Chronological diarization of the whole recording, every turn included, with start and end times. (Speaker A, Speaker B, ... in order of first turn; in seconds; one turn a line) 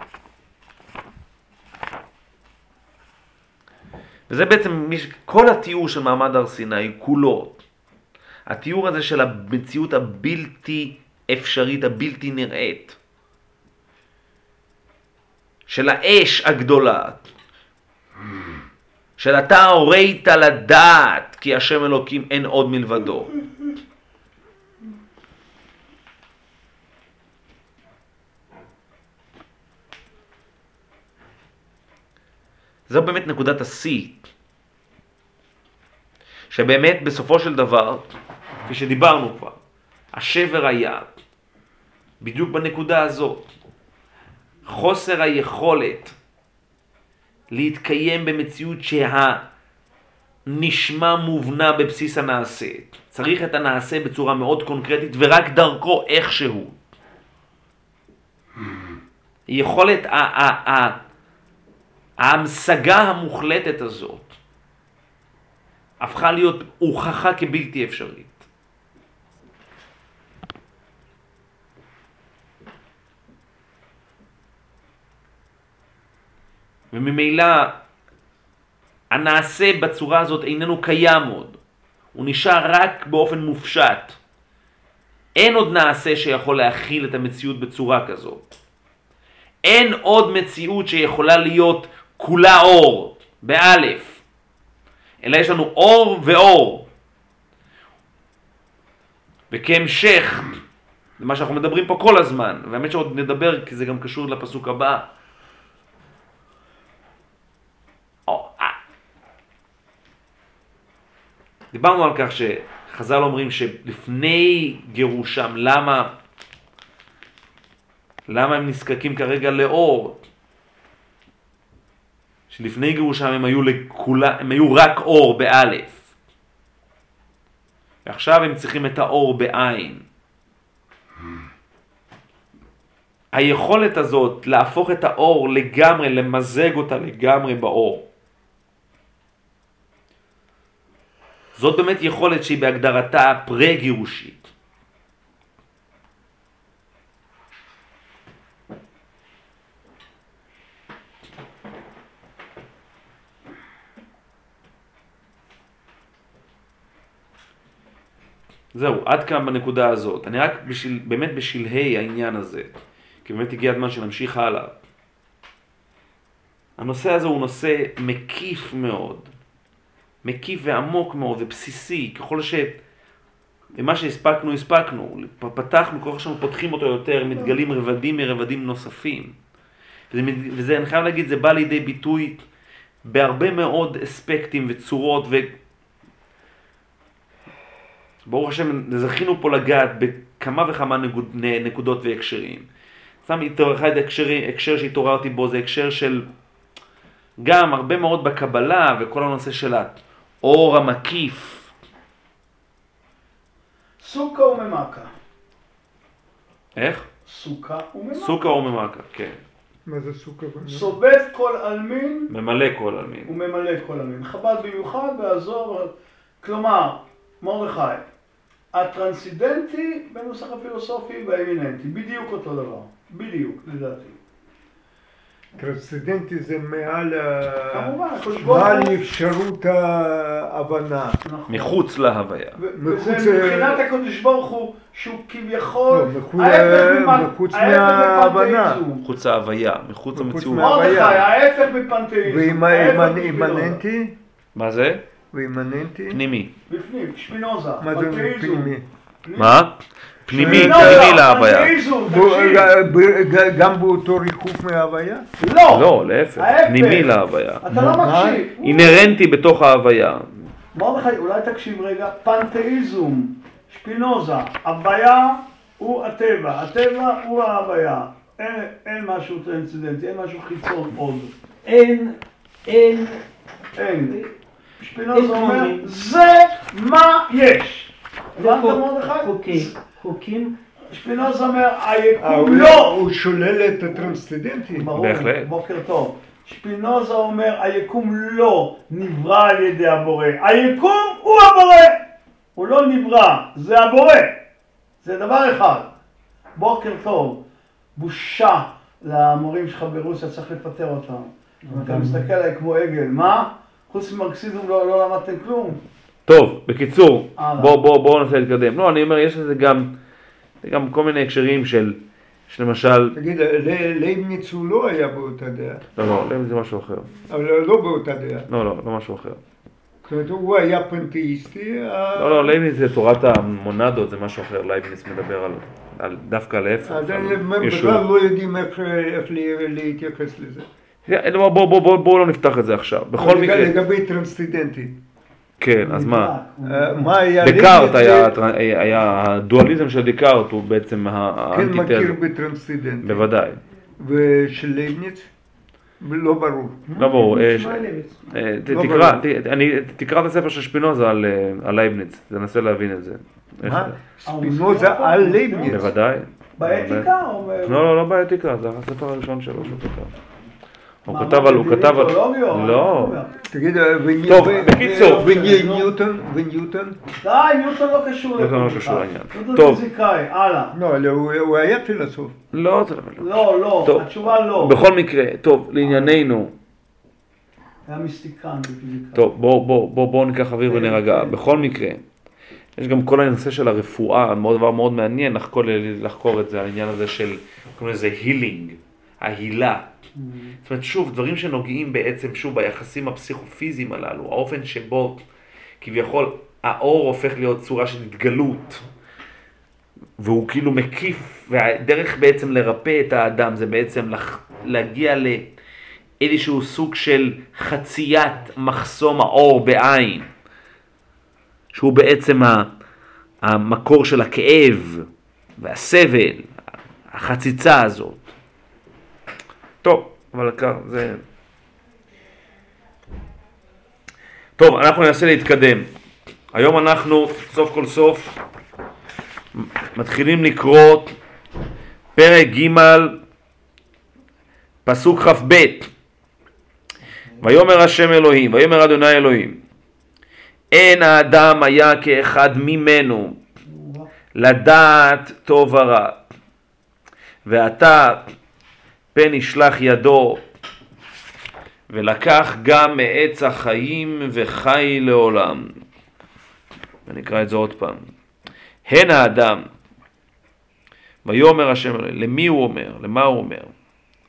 Speaker A: 4.3-7.6
Speaker A: 8.5-13.0
Speaker A: 15.7-17.3
Speaker A: 19.2-23.3
Speaker A: 32.9-34.2
Speaker A: 36.5-38.1
Speaker A: 38.6-39.5
Speaker A: 40.1-41.1
Speaker A: 42.2-43.5
Speaker A: 44.7-46.1
Speaker A: 47.5-49.4
Speaker A: 50.5-56.8
Speaker A: 59.5-61.0
Speaker A: 62.2-64.3
Speaker A: 66.0-68.5
Speaker A: 76.9-77.8
Speaker A: 79.1-81.6
Speaker A: 82.1-84.2
Speaker A: 85.3-88.5
Speaker A: 89.6-94.2
Speaker A: 95.2-96.9
Speaker A: 99.5-100.5
Speaker A: 101.2-105.0
Speaker A: 108.3-108.8
Speaker A: 111.7-116.1
Speaker A: 118.3-120.2
Speaker A: 122.5-126.0
Speaker A: 128.0-130.0
Speaker A: 133.3-138.1
Speaker A: 141.6-144.5
Speaker A: 158.7-164.8
Speaker A: 166.8-169.3
Speaker A: 170.2-172.8
Speaker A: 173.7-179.3
Speaker A: 180.1-182.4
Speaker A: 183.0-185.6
Speaker A: 188.2-192.7
Speaker A: 193.2-196.2
Speaker A: 197.4-201.7
Speaker B: 204.0-205.1
Speaker A: 206.8-207.1
Speaker B: 207.2-208.6
Speaker A: 208.2-209.4
Speaker C: 209.8-210.9
Speaker B: 210.7-212.3
Speaker A: 212.3-213.3
Speaker B: 213.2-218.0
Speaker B: 218.7-224.2
Speaker C: 225.6-231.2
Speaker B: 227.7-229.0
Speaker B: 231.2-231.8
Speaker A: 231.5-232.6
Speaker B: 232.6-239.0
Speaker C: 232.8-233.8
Speaker C: 235.9-238.8
Speaker A: 239.0-241.1
Speaker C: 240.1-241.3
Speaker B: 240.6-243.8
Speaker C: 242.2-244.1
Speaker A: 244.5-245.0
Speaker C: 245.3-246.2
Speaker A: 246.1-246.5
Speaker B: 246.7-249.6
Speaker C: 247.8-248.8
Speaker A: 249.3-251.8
Speaker C: 250.3-251.2
Speaker B: 250.4-252.7
Speaker C: 252.1-255.3
Speaker B: 255.4-259.2
Speaker A: 255.7-257.6
Speaker C: 257.7-258.4
Speaker A: 258.6-260.4
Speaker B: 260.7-271.4
Speaker D: 271.6-273.2
Speaker B: 273.8-274.2
Speaker B: 274.8-279.8
Speaker D: 275.1-275.9
Speaker D: 278.4-280.5
Speaker B: 280.9-283.0
Speaker C: 282.2-284.9
Speaker B: 283.7-284.2
Speaker B: 284.7-292.0
Speaker A: 285.0-285.5
Speaker B: 292.5-294.4
Speaker B: 295.0-295.9
Speaker B: 296.6-297.4
Speaker B: 297.9-305.8
Speaker D: 301.6-302.3
Speaker A: 306.3-310.0
Speaker B: 307.4-307.8
Speaker A: 310.6-313.1
Speaker C: 313.1-315.8
Speaker A: 315.9-317.1
Speaker C: 317.3-318.5
Speaker A: 318.5-319.4
Speaker C: 320.0-322.5
Speaker A: 322.2-328.0
Speaker C: 326.8-330.6
Speaker A: 331.1-333.7
Speaker C: 333.2-335.0
Speaker A: 335.6-336.3
Speaker B: 335.8-337.2
Speaker C: 336.6-338.4
Speaker A: 337.4-342.2
Speaker C: 341.5-343.3
Speaker A: 343.0-343.6
Speaker C: 344.0-345.3
Speaker C: 346.0-347.0
Speaker D: 346.9-348.2
Speaker A: 346.9-353.9
Speaker C: 348.7-349.2
Speaker C: 353.6-355.9
Speaker B: 354.2-355.9
Speaker A: 355.7-357.1
Speaker B: 356.6-357.9
Speaker A: 357.6-360.1
Speaker A: 361.0-363.2
Speaker B: 361.1-363.4
Speaker C: 363.4-367.0
Speaker A: 364.2-365.5
Speaker B: 364.7-365.9
Speaker B: 367.2-370.7
Speaker A: 368.4-369.8
Speaker C: 370.7-372.3
Speaker A: 372.5-376.5
Speaker B: 373.2-374.8
Speaker B: 377.9-379.3
Speaker A: 379.1-382.0
Speaker B: 380.7-381.6
Speaker A: 382.8-389.9
Speaker B: 390.1-390.6
Speaker A: 390.6-395.2
Speaker A: 395.8-398.8
Speaker A: 400.2-405.5
Speaker A: 406.2-410.3
Speaker A: 411.7-412.7
Speaker A: 413.4-415.1
Speaker A: 415.6-416.5
Speaker A: 417.1-418.3
Speaker A: 419.8-421.2
Speaker A: 424.6-425.9
Speaker A: 426.5-428.4
Speaker A: 429.5-431.1
Speaker A: 432.1-433.2
Speaker A: 434.8-435.9
Speaker A: 437.4-439.6
Speaker A: 440.7-443.4
Speaker B: 443.6-444.1
Speaker A: 444.3-446.2
Speaker A: 447.4-448.3
Speaker A: 449.1-450.4
Speaker A: 451.9-455.7
Speaker A: 457.1-458.1
Speaker A: 458.9-459.6
Speaker A: 461.2-463.7